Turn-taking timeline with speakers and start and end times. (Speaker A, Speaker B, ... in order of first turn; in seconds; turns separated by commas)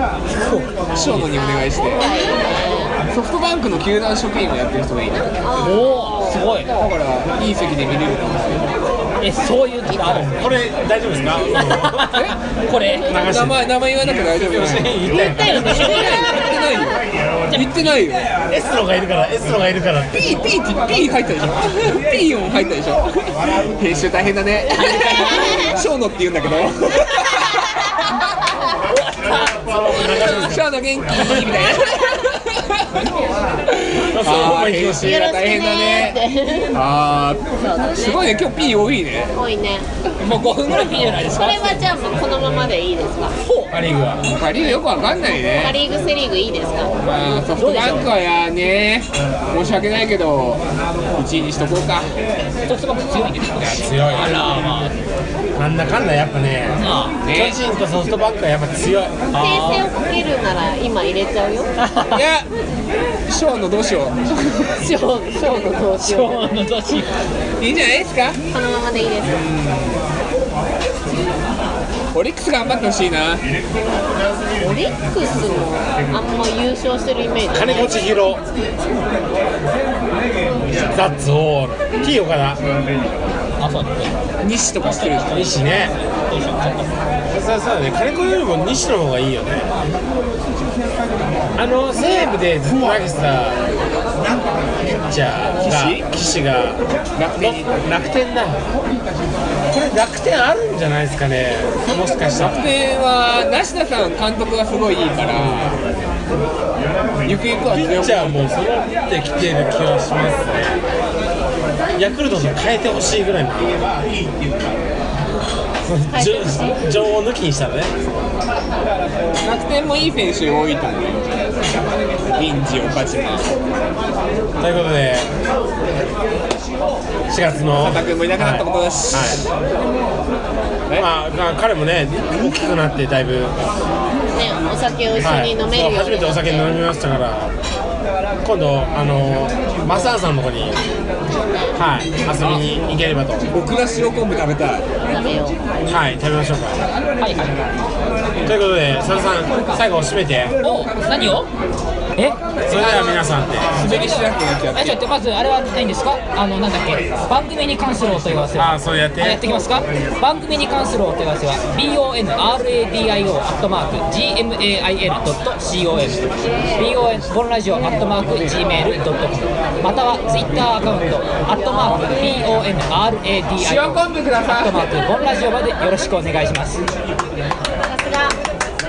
Speaker A: 0.4-1.3, Speaker B: 0.9-2.1, Speaker C: 1.4-3.0, Speaker B: 3.0-5.5, Speaker C: 5.4-6.9, Speaker D: 5.6-6.8, Speaker B: 6.7-8.7, Speaker D: 9.2-10.3, Speaker A: 10.1-12.3, Speaker D: 11.6-13.2, Speaker A: 13.0-13.8, Speaker B: 13.0-18.3, Speaker A: 14.3-16.2, Speaker C: 15.0-16.6, Speaker D: 15.9-16.5, Speaker D: 17.5-17.9, Speaker A: 18.5-20.5, Speaker B: 20.1-27.8, Speaker D: 24.7-25.6, Speaker C: 25.2-25.6, Speaker D: 28.6-29.8, Speaker A: 29.6-30.7, Speaker B: 30.0-33.0, Speaker B: 33.7-36.2, Speaker A: 34.1-35.2, Speaker C: 35.0-36.8, Speaker B: 36.7-39.3, Speaker C: 37.6-38.4, Speaker C: 39.3-39.9, Speaker D: 40.2-41.9, Speaker B: 40.5-41.1, Speaker C: 41.2-43.4, Speaker D: 43.4-43.7, Speaker A: 43.7-44.3, Speaker B: 44.3-45.8, Speaker C: 45.5-47.0, Speaker B: 46.9-50.6, Speaker D: 47.1-48.0, Speaker B: 51.2-52.2, Speaker D: 52.7-55.0, Speaker A: 53.6-54.7, Speaker A: 55.6-59.2, Speaker D: 56.8-57.2, Speaker B: 57.2-57.6, Speaker D: 59.3-59.9, Speaker C: 59.4-61.8, Speaker D: 61.8-62.2, Speaker B: 62.1-62.5, Speaker B: 63.3-64.7, Speaker C: 64.8-66.5, Speaker D: 66.0-67.2, Speaker B: 67.6-68.4, Speaker C: 68.5-69.4, Speaker B: 69.3-70.0, Speaker B: 72.1-73.5, Speaker C: 74.6-78.0, Speaker A: 77.5-78.4, Speaker A: 80.8-82.6, Speaker D: 83.6-84.1, Speaker B: 84.4-85.5, Speaker D: 84.8-85.2, Speaker A: 85.3-86.0, Speaker D: 86.3-86.9, Speaker A: 87.3-89.7, Speaker A: 91.6-93.6, Speaker A: 94.8-96.8, Speaker B: 95.5-96.1, Speaker B: 97.2-97.8, Speaker A: 97.4-98.6, Speaker A: 99.7-102.6, Speaker B: 102.4-105.8, Speaker B: 107.2-108.4, Speaker A: 107.7-110.8, Speaker A: 112.0-113.9, Speaker A: 115.8-117.9, Speaker C: 116.1-116.8, Speaker B: 119.4-121.5, Speaker B: 122.4-123.5, Speaker A: 124.6-125.3, Speaker A: 127.3-129.4, Speaker B: 127.8-129.5, Speaker A: 131.0-133.6, Speaker C: 134.3-136.7, Speaker A: 135.2-137.5, Speaker A: 138.4-140.8, Speaker C: 141.3-141.8, Speaker A: 141.7-143.5, Speaker B: 142.4-142.7, Speaker B: 143.5-144.9, Speaker C: 145.0-145.6, Speaker A: 145.9-146.9, Speaker D: 147.2-147.6, Speaker A: 148.4-150.6, Speaker D: 149.0-149.8, Speaker D: 150.6-151.5, Speaker A: 152.7-153.9, Speaker B: 152.7-155.1, Speaker D: 153.8-176.8, Speaker A: 158.6-159.7, Speaker B: 173.6-174.8, Speaker C: 177.8-178.4